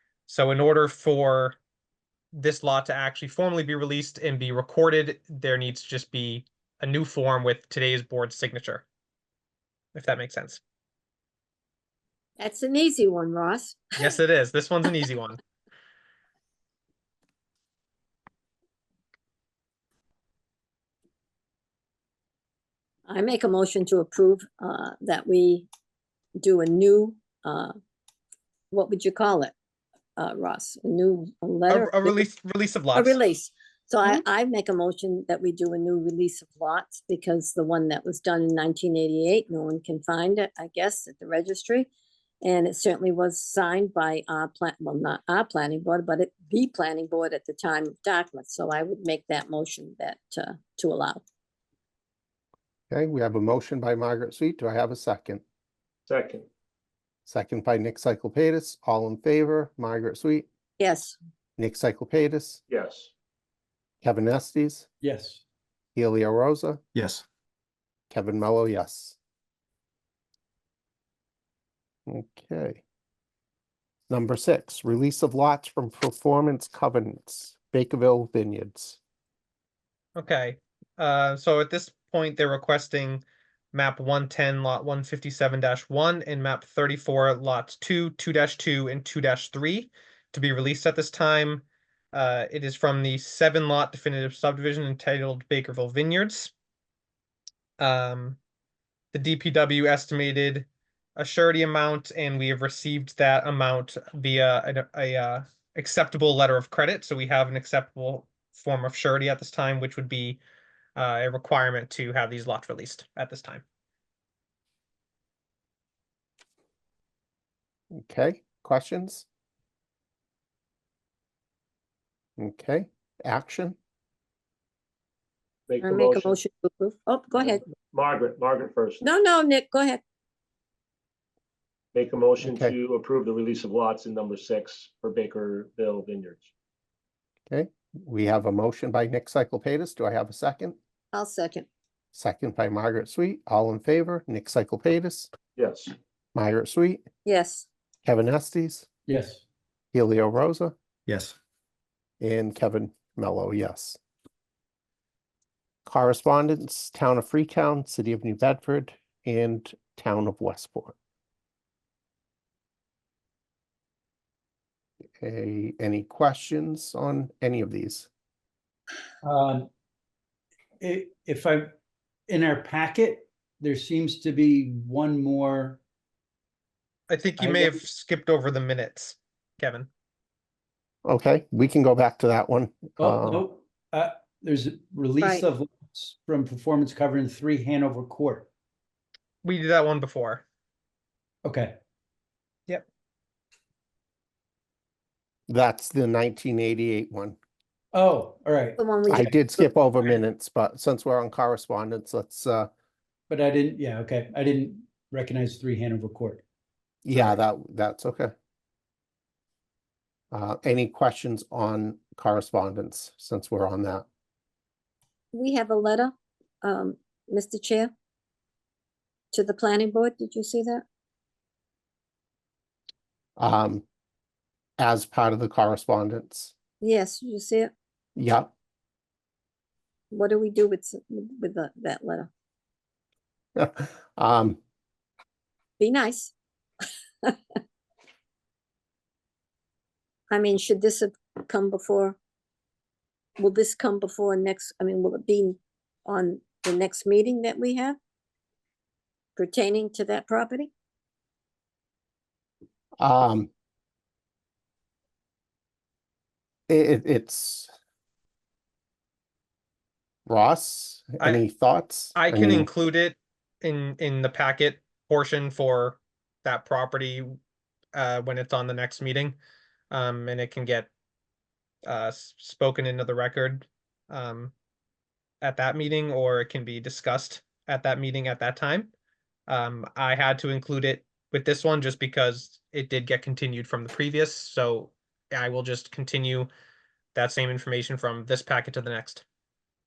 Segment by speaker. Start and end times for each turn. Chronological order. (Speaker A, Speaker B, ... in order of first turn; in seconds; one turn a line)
Speaker A: 0.3-1.6
Speaker A: 2.3-8.8
Speaker A: 9.9-10.6
Speaker B: 12.4-14.1
Speaker A: 14.0-15.4
Speaker B: 23.1-25.7
Speaker B: 26.4-27.7
Speaker B: 28.7-29.5
Speaker B: 30.2-32.2
Speaker A: 31.7-33.2
Speaker B: 33.0-41.9
Speaker B: 42.4-51.2
Speaker C: 52.9-55.4
Speaker D: 56.1-56.5
Speaker C: 57.3-60.5
Speaker B: 60.8-61.2
Speaker C: 61.6-62.6
Speaker D: 62.7-63.1
Speaker C: 64.0-64.8
Speaker E: 65.0-65.4
Speaker C: 65.9-66.8
Speaker C: 68.1-69.2
Speaker C: 72.1-72.8
Speaker C: 74.1-79.0
Speaker A: 80.2-96.5
Speaker A: 97.8-98.4
Speaker A: 99.1-110.4
Speaker A: 111.0-113.6
Speaker C: 117.9-119.2
Speaker C: 122.4-123.8
Speaker D: 125.7-126.4
Speaker B: 125.8-127.6
Speaker D: 127.9-129.0
Speaker B: 129.0-130.0
Speaker D: 131.9-136.5
Speaker C: 132.4-132.7
Speaker C: 137.5-140.8
Speaker B: 141.1-141.7
Speaker C: 142.1-145.3
Speaker D: 145.6-145.9
Speaker C: 146.3-147.0
Speaker B: 147.2-147.7
Speaker C: 148.1-148.9
Speaker E: 149.1-149.4
Speaker C: 149.9-150.7
Speaker C: 152.2-154.0
Speaker C: 155.9-160.9
Speaker C: 165.2-168.1
Speaker E: 169.2-169.7
Speaker E: 170.8-171.7
Speaker E: 172.3-175.8
Speaker A: 177.1-179.9
Speaker E: 177.4-177.8
Speaker C: 181.1-183.5
Speaker E: 183.0-188.5
Speaker B: 185.2-185.5
Speaker A: 189.4-190.4
Speaker E: 191.4-191.7
Speaker C: 195.5-197.4
Speaker E: 197.9-198.8
Speaker B: 198.8-199.5
Speaker C: 199.1-202.7
Speaker E: 203.3-206.4
Speaker C: 207.1-208.3
Speaker E: 207.1-207.4
Speaker C: 210.3-214.1
Speaker B: 215.3-217.9
Speaker B: 219.3-220.8
Speaker C: 223.4-223.8
Speaker C: 224.8-226.5
Speaker B: 226.8-227.7
Speaker C: 228.2-228.5
Speaker B: 230.1-232.3
Speaker C: 233.6-234.6
Speaker B: 235.8-236.3
Speaker B: 240.3-242.2
Speaker B: 243.4-248.0
Speaker B: 249.4-250.7
Speaker C: 253.0-253.5
Speaker C: 256.7-257.7
Speaker C: 260.3-262.7
Speaker A: 262.1-267.4
Speaker A: 267.9-269.4
Speaker A: 269.9-270.9
Speaker A: 271.9-274.5
Speaker A: 275.4-278.9
Speaker A: 279.5-286.5
Speaker A: 287.1-289.2